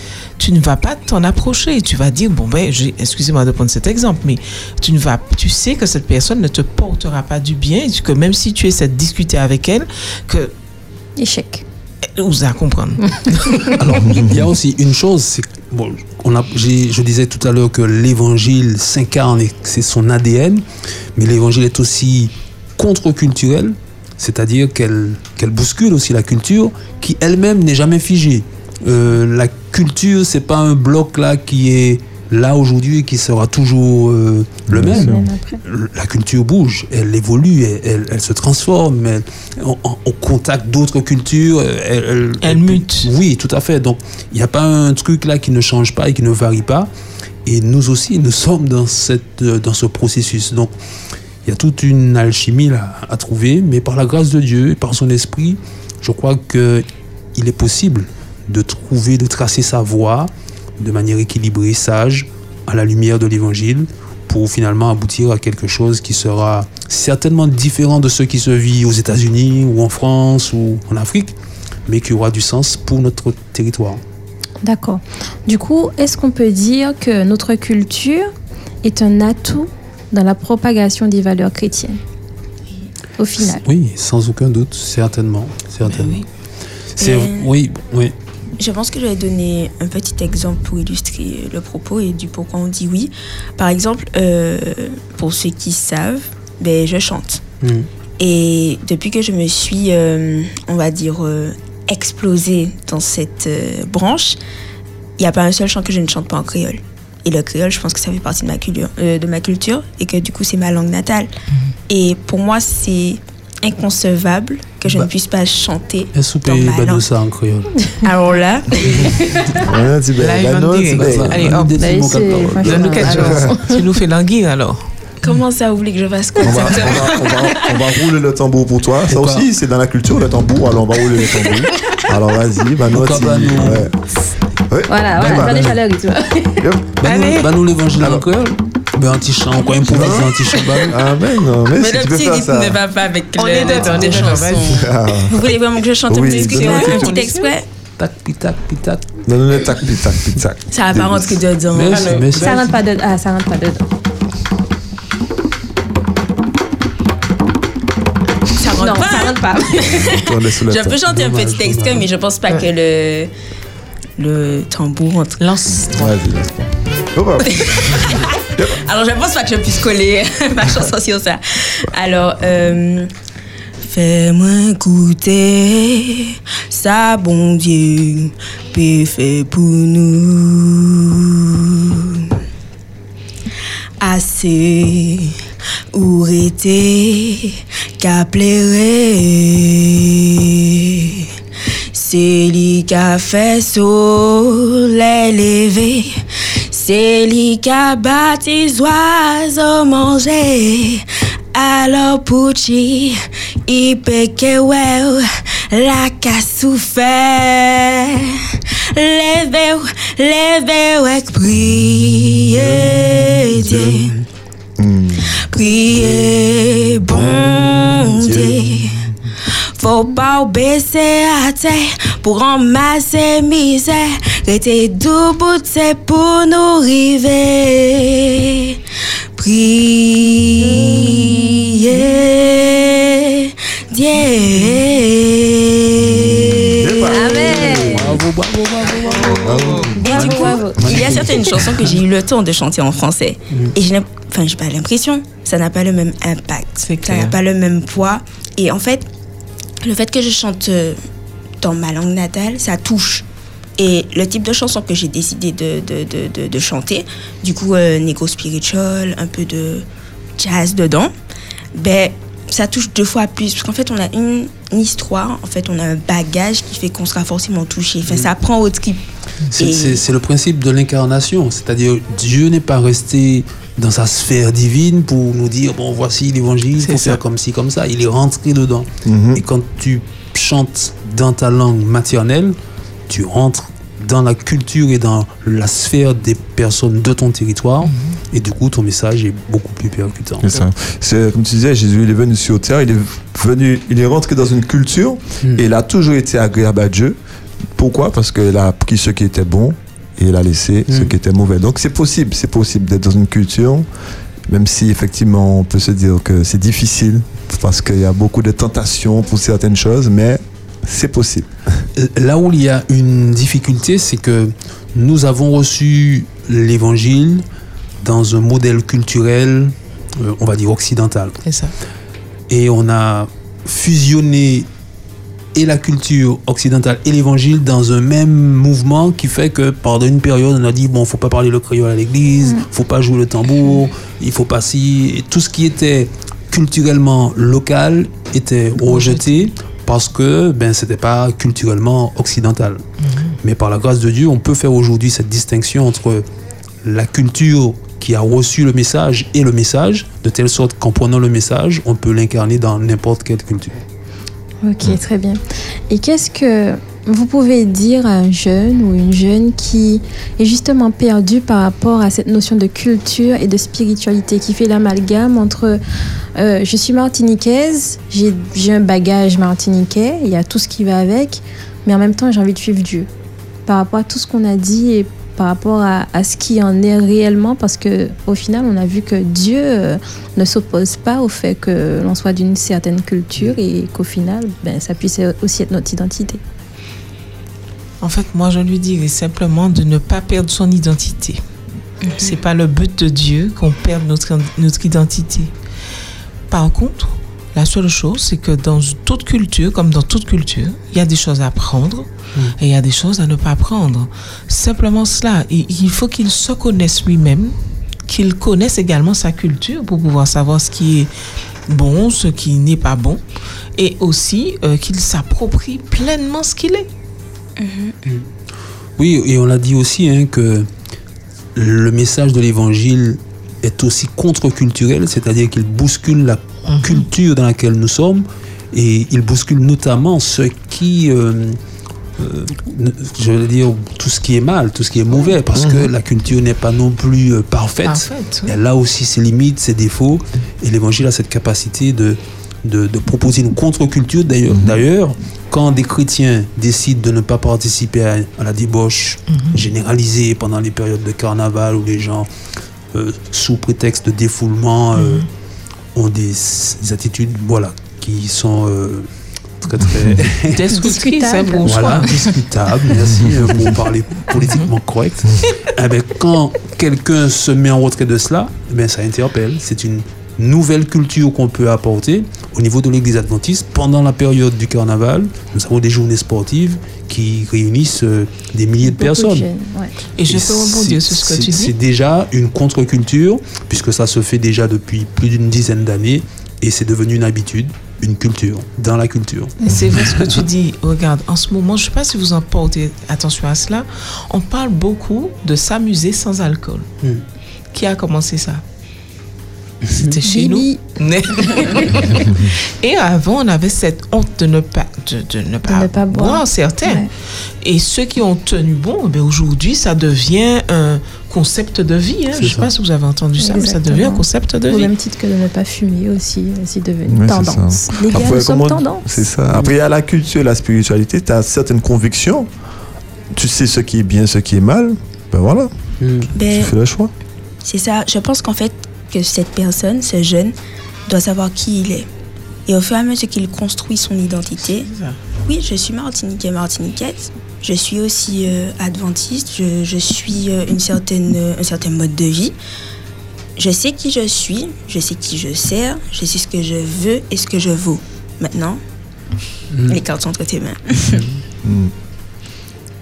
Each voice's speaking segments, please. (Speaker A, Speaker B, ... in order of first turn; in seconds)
Speaker A: 0.4-10.5, 12.2-13.7, 42.4-43.1, 85.8-86.2, 120.2-122.0, 122.6-125.4, 137.0-137.5, 143.4-144.9, 146.3-147.5, 151.9-152.5, 165.4-166.2, 239.5-239.8, 246.9-247.3, 276.8-277.2, 287.8-288.1, 321.4-321.7, 338.8-339.3, 343.1-343.3, 388.0-391.4, 392.1-395.5, 396.5-411.1, 411.7-413.2, 413.8-416.9, 426.7-427.1, 437.8-438.6, 454.9-455.2, 460.5-462.2, 464.4-464.7, 480.2-481.7, 489.6-496.9, 497.7-498.6, 499.9-507.1, 507.6-514.9, 534.6-535.2
Speaker B: 11.2-11.6, 34.9-35.6, 74.6-78.3, 78.8-82.0, 83.2-83.6, 121.8-123.8, 134.9-136.6, 152.4-153.8, 158.7-159.8, 237.0-238.1, 239.9-240.8, 354.6-365.8, 366.4-373.1, 373.7-386.4, 460.8-462.1, 478.8-479.9, 500.3-500.8, 501.5-502.1, 505.7-507.1, 513.4-519.3
Speaker C: 13.8-20.6, 21.1-46.9, 47.4-50.7, 51.4-71.3, 71.8-74.0, 83.6-86.2, 87.0-88.1, 97.6-97.9, 116.1-117.9, 120.9-123.2, 129.1-129.5, 132.9-133.9, 135.2-135.7, 137.0-141.0, 148.0-149.1, 151.7-152.6, 161.1-162.1, 212.6-214.2, 217.1-218.6, 237.4-241.9, 269.5-282.6, 283.1-290.7, 312.0-317.4, 318.0-321.4, 322.5-324.7, 325.5-342.8, 343.4-346.2, 346.8-353.8, 419.0-420.7, 421.5-431.6, 432.2-452.3, 452.9-455.3, 455.9-459.1, 459.6-460.7, 461.6-479.5, 480.3-490.4, 499.9-500.1, 512.3-512.7, 526.0-526.3, 549.7-550.0
Speaker D: 14.1-14.4, 34.7-35.3, 119.6-121.6, 123.1-123.3, 126.4-133.9, 134.7-135.8, 136.6-136.9, 138.0-138.3, 139.8-142.8, 143.8-145.3, 146.1-147.2, 149.2-151.4, 159.8-161.0, 165.8-168.0, 214.8-215.3, 236.1-238.2, 239.4-240.0, 279.0-279.4, 290.4-297.2, 297.8-303.9, 304.5-311.9, 435.5-435.9, 444.5-444.8, 517.1-522.5, 523.3-525.7, 526.4-527.1, 551.6-551.9
Speaker E: 87.0-87.5, 88.6-97.4, 98.2-104.4, 105.2-111.3, 111.9-117.0, 118.0-119.6, 125.2-127.7, 141.7-147.7, 150.7-152.6, 158.6-163.3, 164.2-165.4, 167.5-173.1, 173.8-182.2, 184.0-185.3, 185.9-191.2, 191.9-208.3, 208.9-214.1, 215.3-218.9, 219.8-228.8, 229.3-237.2, 240.1-249.1, 249.8-251.0, 251.6-253.2, 253.8-261.1, 261.7-269.0, 269.6-270.0, 392.0-392.4, 417.6-417.9, 526.3-526.7, 527.6-530.5, 531.1-532.1, 532.7-534.9, 535.4-542.5, 543.6-548.8, 549.9-551.2